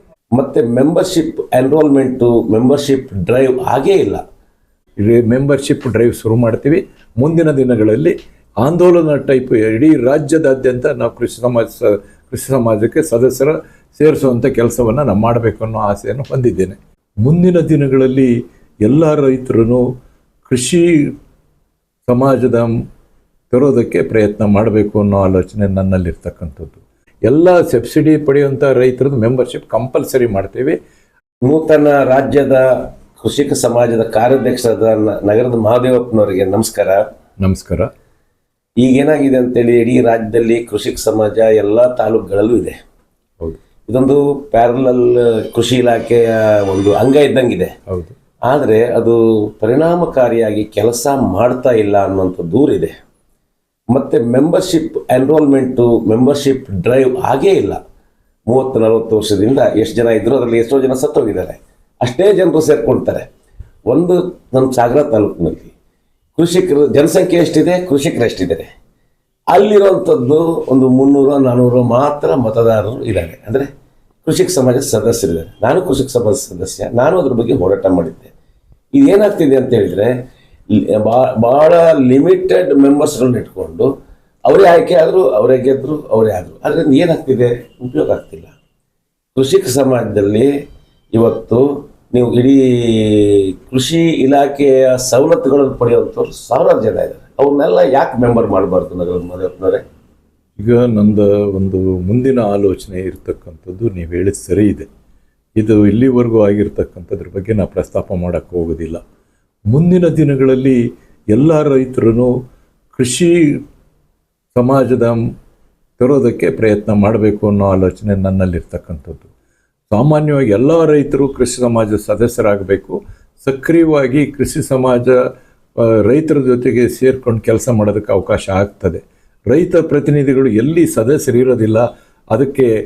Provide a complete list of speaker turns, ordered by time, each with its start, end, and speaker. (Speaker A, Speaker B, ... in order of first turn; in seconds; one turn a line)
Speaker A: 0.3-4.2
Speaker B: 5.0-18.3
Speaker B: 18.9-19.9
Speaker B: 20.5-20.9
Speaker B: 22.1-22.7
Speaker B: 23.5-30.8
Speaker A: 31.5-37.0
Speaker B: 37.4-37.9
Speaker A: 38.8-42.8
Speaker A: 43.9-47.7
Speaker B: 47.9-48.1
Speaker A: 48.5-52.9
Speaker A: 53.9-57.8
Speaker A: 58.5-63.3
Speaker A: 63.9-65.7
Speaker A: 66.4-68.7
Speaker A: 69.5-73.7
Speaker A: 74.2-78.3
Speaker A: 79.0-80.1
Speaker A: 80.7-83.9
Speaker A: 84.5-88.5
Speaker A: 89.3-90.5
Speaker A: 91.1-99.8
Speaker B: 100.6-104.9
Speaker B: 105.6-109.0
Speaker B: 109.7-110.8
Speaker B: 111.3-112.3
Speaker B: 112.9-113.6
Speaker B: 114.5-115.2
Speaker B: 116.0-119.3
Speaker B: 119.9-125.2
Speaker B: 125.8-132.7